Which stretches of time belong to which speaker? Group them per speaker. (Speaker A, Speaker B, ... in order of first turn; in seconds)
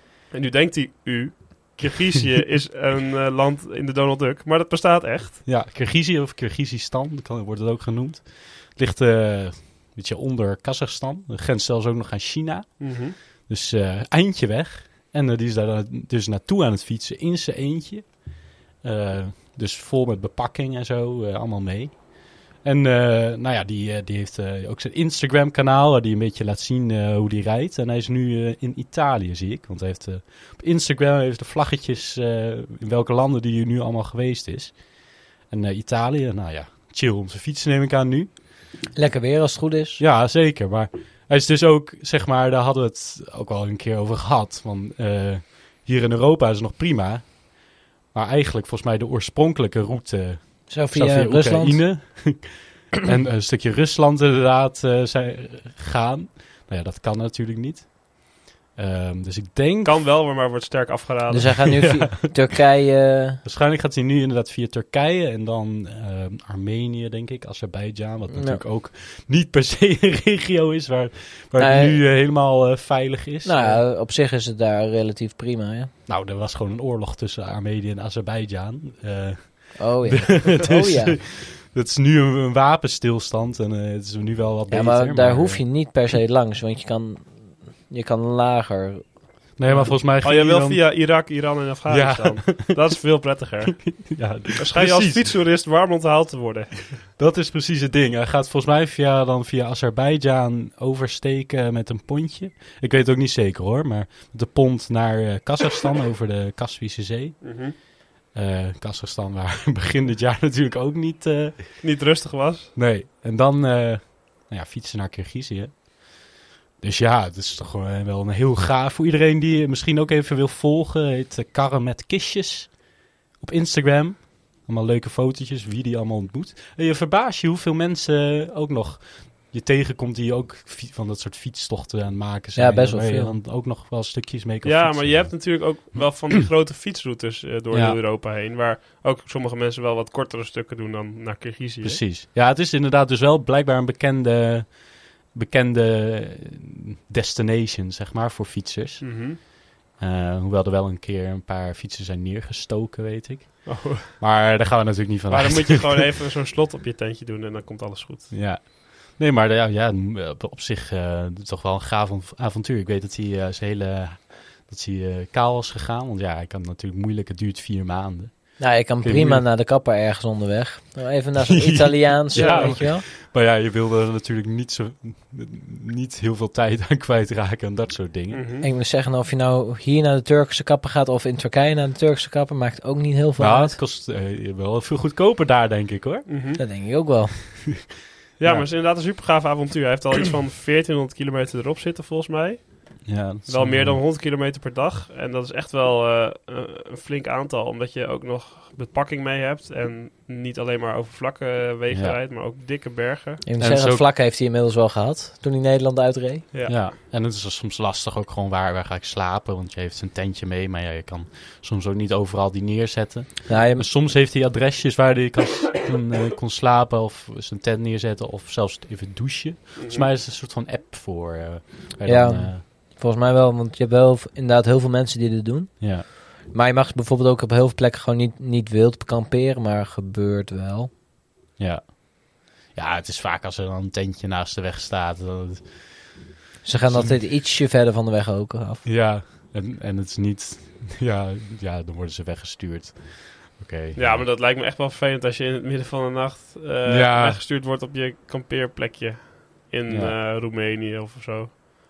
Speaker A: 0.3-5.4, 12.8-13.2, 59.8-62.0, 89.7-97.0, 107.4-107.8, 111.8-112.7, 134.6-142.0, 149.0-149.4, 153.7-154.1, 155.3-158.3, 172.3-172.9, 178.3-178.7, 186.3-186.6, 188.4-203.4, 206.5-206.9, 219.8-220.1, 243.9-251.5
Speaker B: 5.5-38.3, 40.0-60.0, 61.8-62.1, 63.4-73.8, 76.1-85.7, 89.6-91.0, 91.9-92.8, 93.8-95.3, 97.2-107.8, 108.3-111.8, 112.8-116.2, 116.8-122.8, 123.4-136.1, 137.7-138.0, 141.8-149.4, 150.0-156.0, 158.3-169.5, 171.4-178.4, 183.4-186.3, 193.1-194.0, 201.9-202.2, 203.6-204.1, 206.7-222.6, 225.8-226.1, 231.6-236.2, 236.8-237.2, 238.8-244.3, 246.8-247.4, 249.9-250.2
Speaker C: 39.0-40.0, 50.7-51.9, 61.3-63.4, 68.3-68.6, 71.6-72.0, 73.4-75.9, 79.8-81.2, 84.7-89.9, 132.6-133.4, 168.6-173.0, 178.6-183.8, 186.6-187.7, 203.4-206.5, 213.5-213.9, 222.1-230.9, 236.6-238.8